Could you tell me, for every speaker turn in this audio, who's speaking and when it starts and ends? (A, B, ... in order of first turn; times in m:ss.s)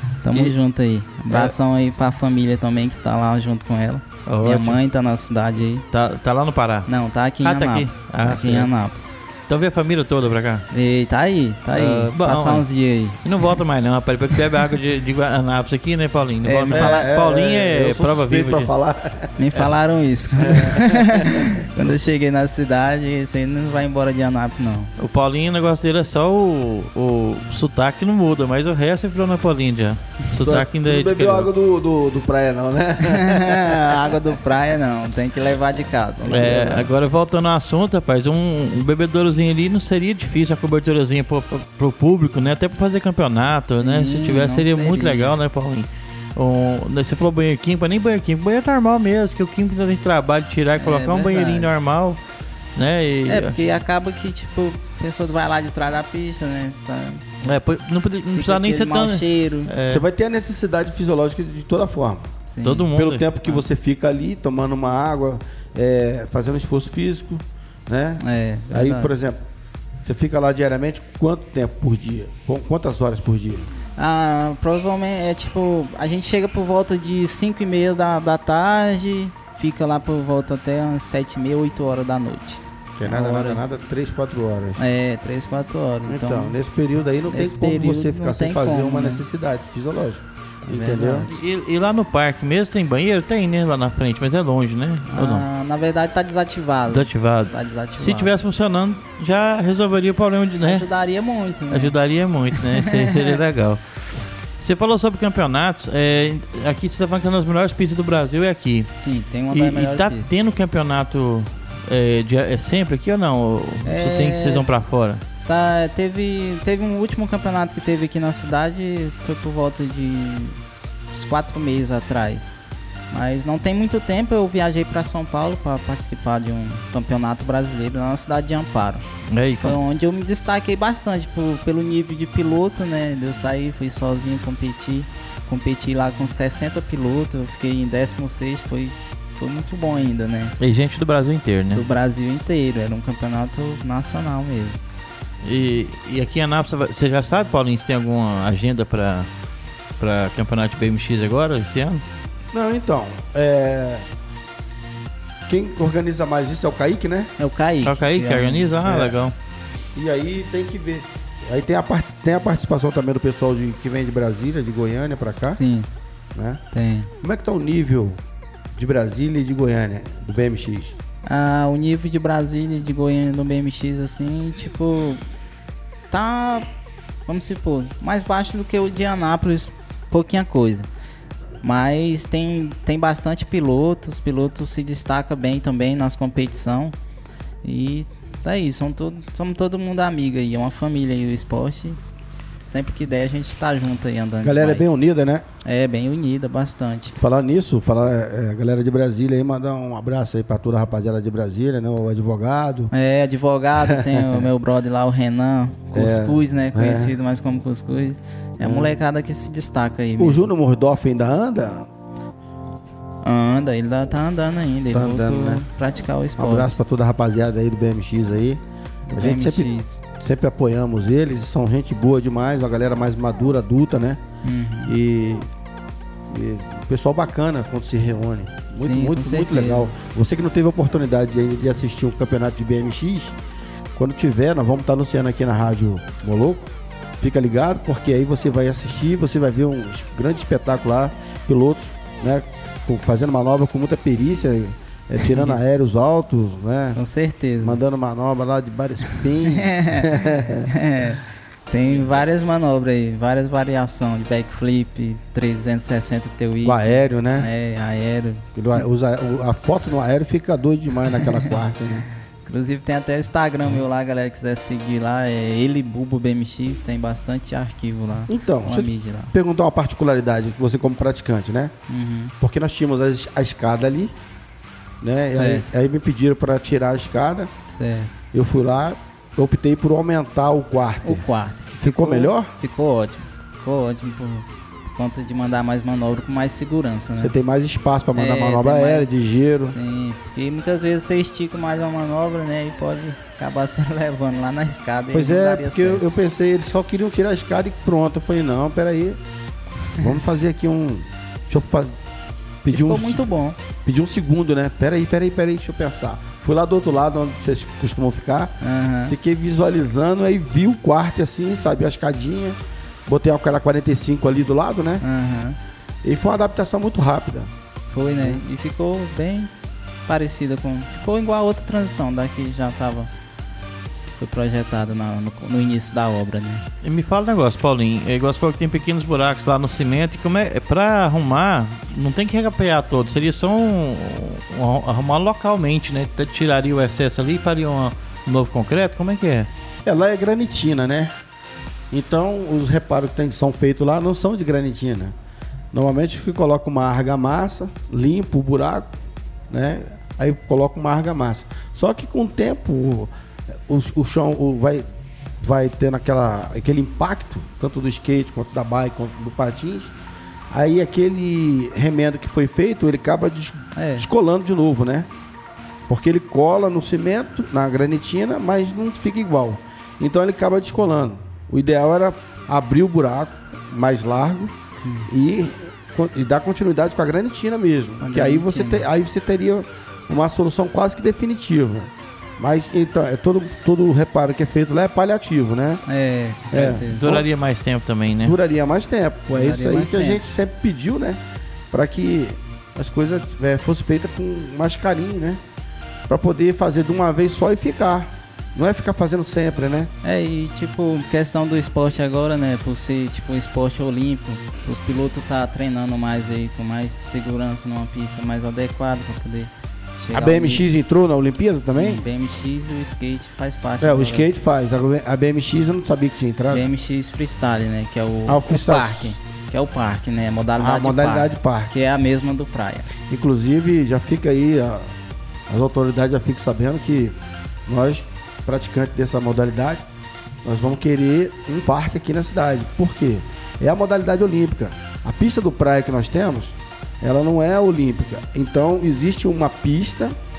0:00.2-0:05.8 A
0:04.3-0:04.8 B
0:05.9-0:06.9 B
0:06.9-0:09.1 A
0:07.4-0:08.7 B
0:09.5-0:10.7 B
0:10.7-0:13.2 A
0:11.8-0:12.7 B
0:13.2-0:18.7 B
0:16.4-0:17.1 A
0:16.7-0:19.4 C
0:19.4-0:24.9 A
0:20.4-0:21.7 C
0:25.0-0:31.5 B
0:30.4-0:34.2 C
0:33.0-0:36.9 A
0:36.3-0:52.2 B
0:43.7-0:45.3 A
0:50.8-0:51.7 A
0:52.8-0:53.6 B
0:53.3-0:57.5 A
0:57.4-1:00.0 B
0:58.3-0:59.7 A
0:59.9-1:02.3 C
1:02.5-1:02.9 A
1:02.6-1:03.3 B
1:02.9-1:09.4 C
1:08.2-1:09.1 A
1:10.0-1:13.7 C
1:14.0-1:23.6 A
1:23.0-1:24.8 C
1:24.8-1:26.6 A
1:26.1-1:31.3 C
1:27.3-1:29.2 A
1:30.7-1:31.4 A
1:31.3-1:35.5 B
1:35.1-1:38.3 A
1:36.9-1:40.9 B
1:40.6-1:42.0 A
1:41.7-1:43.8 B
1:42.6-1:43.4 A
1:44.6-1:48.9 B
1:49.0-1:50.3 A
1:49.5-1:55.2 B
1:53.9-1:54.7 A
1:55.5-2:00.6 A
2:01.1-2:02.6 A
2:03.1-2:09.1 A
2:09.3-2:09.8 B
2:09.6-2:20.6 A
2:20.6-2:21.8 B
2:21.7-2:24.8 A
2:25.4-2:29.3 B
2:30.0-2:32.0 B
2:32.5-2:34.1 C
2:35.5-2:37.3 C
2:37.4-2:39.1 A
2:37.8-2:39.3 B
2:38.8-2:39.1 C
2:40.0-2:45.6 C
2:45.5-2:45.9 A
2:46.4-2:46.6 C
2:46.7-2:47.1 A
2:47.2-2:48.2 C
2:48.7-2:51.0 C
2:51.3-2:55.2 A
2:56.1-2:56.7 A
2:57.3-3:00.9 A
3:01.6-3:07.0 A
3:07.6-3:12.0 A
3:12.6-3:14.9 A
3:14.4-3:15.5 C
3:15.6-3:17.2 A
3:17.2-3:22.9 C
3:22.9-3:30.5 A
3:23.8-3:24.5 C
3:25.9-3:27.1 C
3:28.6-3:28.9 C
3:30.2-3:31.9 C
3:33.2-3:36.8 A
3:34.9-3:35.6 C
3:36.4-3:38.6 C
3:39.1-3:40.0 A
3:39.1-3:44.2 C
3:44.4-3:45.0 A
3:44.9-3:45.5 C
3:46.3-3:53.4 C
3:48.8-3:49.9 A
3:54.0-4:07.0 C
4:05.2-4:05.8 A
4:07.0-4:07.8 A
4:07.6-4:10.7 C
4:09.1-4:18.5 A
4:16.6-4:17.5 C
4:18.6-4:22.1 C
4:22.4-4:29.3 A
4:28.3-4:31.7 C
4:31.9-4:32.3 A
4:32.4-4:34.1 C
4:35.0-4:37.5 C
4:35.3-4:35.7 A
4:37.7-4:38.1 A
4:38.3-4:41.2 C
4:41.0-4:47.4 A
4:41.8-4:42.5 C
4:47.2-4:49.8 C
4:48.2-4:56.0 A
4:55.1-4:59.2 C
5:00.0-5:02.0 C
5:02.6-5:03.2 C
5:02.7-5:03.6 A
5:03.8-5:08.6 C
5:08.6-5:09.2 A
5:09.1-5:15.0 C
5:15.0-5:15.6 A
5:16.0-5:17.5 C
5:17.9-5:19.5 A
5:20.1-5:23.1 A
5:24.2-5:26.6 A
5:26.8-5:39.5 B
5:39.8-5:41.1 C
5:41.9-5:45.1 C
5:45.7-5:48.9 C
5:49.5-5:53.1 C
5:53.7-5:54.9 C
5:55.4-5:59.9 C
6:00.5-6:05.1 C
6:03.8-6:04.1 A
6:05.9-6:14.5 C
6:14.8-6:15.1 A
6:15.1-6:25.8 C
6:18.0-6:18.9 A
6:25.9-6:27.2 A
6:26.5-6:27.2 C
6:26.6-6:28.4 B
6:28.2-6:31.2 C
6:29.4-6:30.2 A
6:31.7-6:35.4 C
6:36.1-6:39.9 C
6:40.0-6:50.6 A
6:50.1-6:52.0 C
6:51.7-6:54.3 A
6:53.8-6:56.7 C
6:56.5-7:02.9 A
6:58.3-6:59.2 C
7:00.6-7:01.7 C
7:03.1-7:04.9 C
7:05.5-7:09.8 C
7:10.4-7:20.2 C